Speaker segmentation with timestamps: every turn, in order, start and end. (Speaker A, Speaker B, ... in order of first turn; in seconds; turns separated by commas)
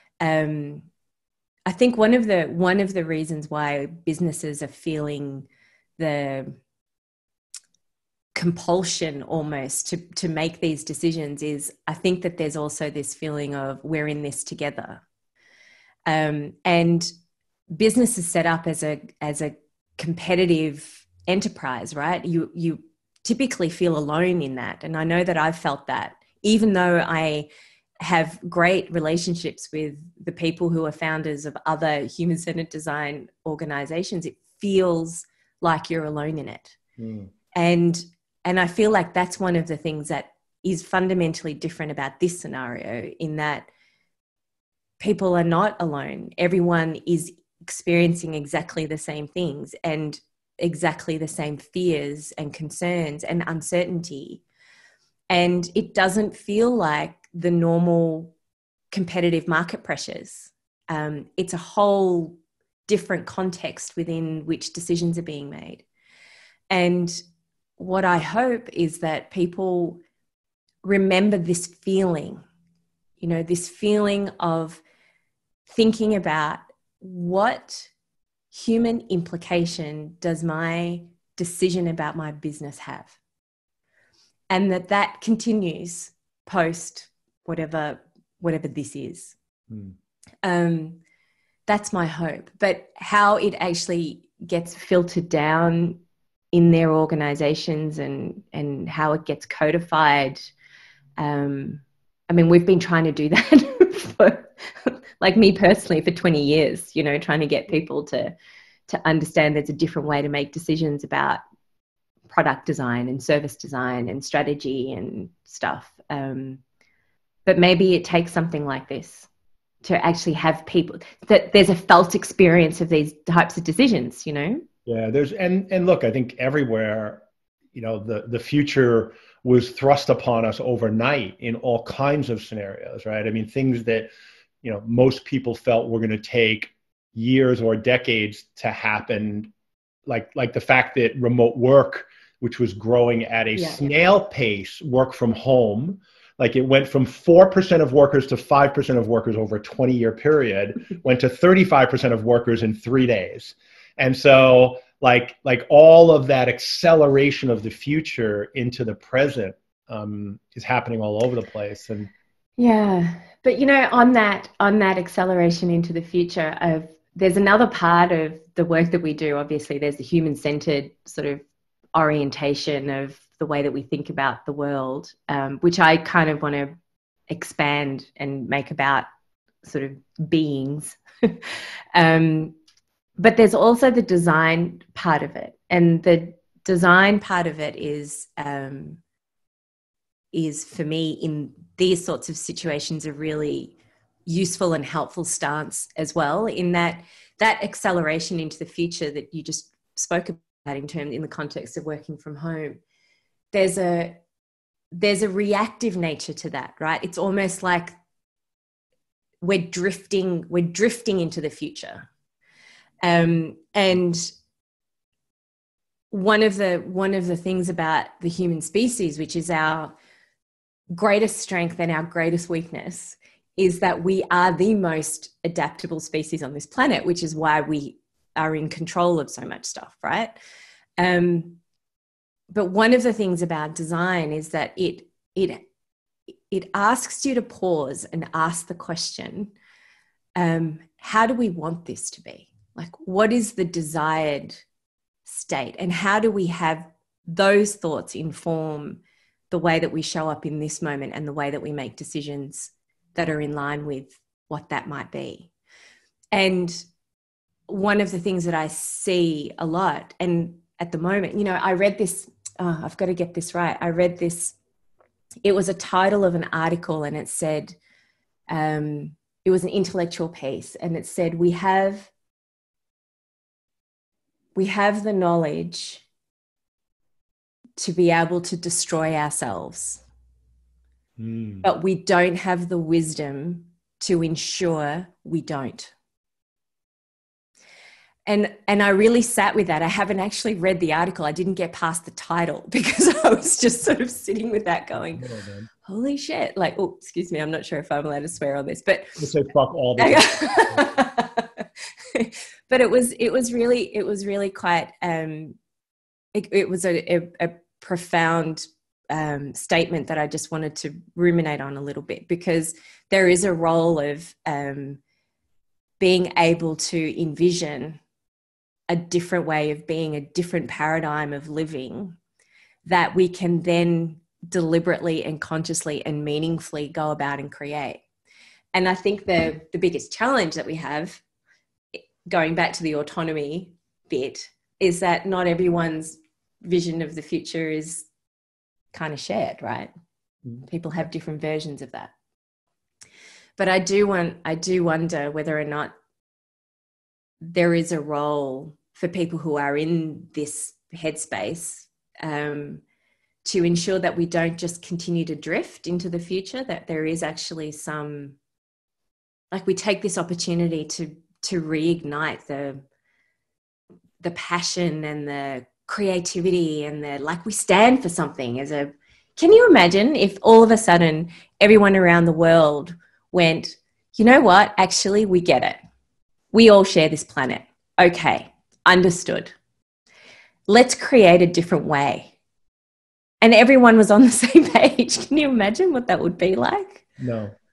Speaker A: 0.2-0.9, Speaker A: 1.6-5.5, Speaker A: 6.0-6.6, Speaker A: 8.3-15.0, Speaker A: 16.1-17.1, Speaker A: 17.7-27.5, Speaker A: 28.0-36.8, Speaker B: 37.0-37.3, Speaker A: 37.5-43.7, Speaker A: 45.0-54.4, Speaker A: 55.3-58.3, Speaker A: 58.9-65.8, Speaker A: 66.7-67.2, Speaker A: 67.8-70.0, Speaker A: 70.8-72.4, Speaker A: 73.2-74.8, Speaker A: 75.7-77.9, Speaker A: 78.5-83.1, Speaker A: 84.5-89.3, Speaker B: 89.7-89.9, Speaker A: 90.4-91.0, Speaker A: 91.7-96.0, Speaker A: 96.5-100.5, Speaker A: 101.2-108.3, Speaker A: 108.9-111.4, Speaker A: 112.3-116.6, Speaker A: 117.5-119.3, Speaker A: 119.8-124.6, Speaker B: 124.8-134.1, Speaker B: 134.6-139.5, Speaker B: 140.1-162.1, Speaker A: 162.6-176.7, Speaker A: 177.3-179.1, Speaker A: 179.6-182.5, Speaker A: 183.2-189.0, Speaker A: 190.3-202.8, Speaker A: 203.5-204.2, Speaker A: 204.9-207.9, Speaker A: 209.4-212.1, Speaker A: 213.0-214.3, Speaker A: 216.1-219.9, Speaker A: 220.9-230.3, Speaker A: 231.0-231.6, Speaker A: 232.5-235.6, Speaker A: 236.5-239.5, Speaker A: 240.3-244.6, Speaker A: 245.2-255.5, Speaker A: 256.3-256.8, Speaker A: 257.7-264.6, Speaker A: 265.4-267.8, Speaker A: 268.5-272.1, Speaker A: 274.5-276.0, Speaker A: 277.8-280.0, Speaker B: 281.2-281.7, Speaker A: 281.6-285.9, Speaker A: 288.2-295.2, Speaker B: 295.1-295.7, Speaker A: 295.8-299.2, Speaker B: 299.2-300.9, Speaker A: 300.0-305.6, Speaker A: 306.3-315.0, Speaker A: 316.0-318.0, Speaker A: 318.9-322.2, Speaker A: 322.8-328.0, Speaker A: 328.7-331.2, Speaker A: 331.9-338.1, Speaker A: 338.9-339.9, Speaker A: 340.7-342.1, Speaker A: 343.6-345.9, Speaker A: 347.4-352.8, Speaker A: 353.4-358.4, Speaker A: 359.5-362.8, Speaker A: 364.2-375.8, Speaker A: 376.5-379.5, Speaker A: 380.7-382.3, Speaker A: 383.4-387.0, Speaker B: 387.2-387.5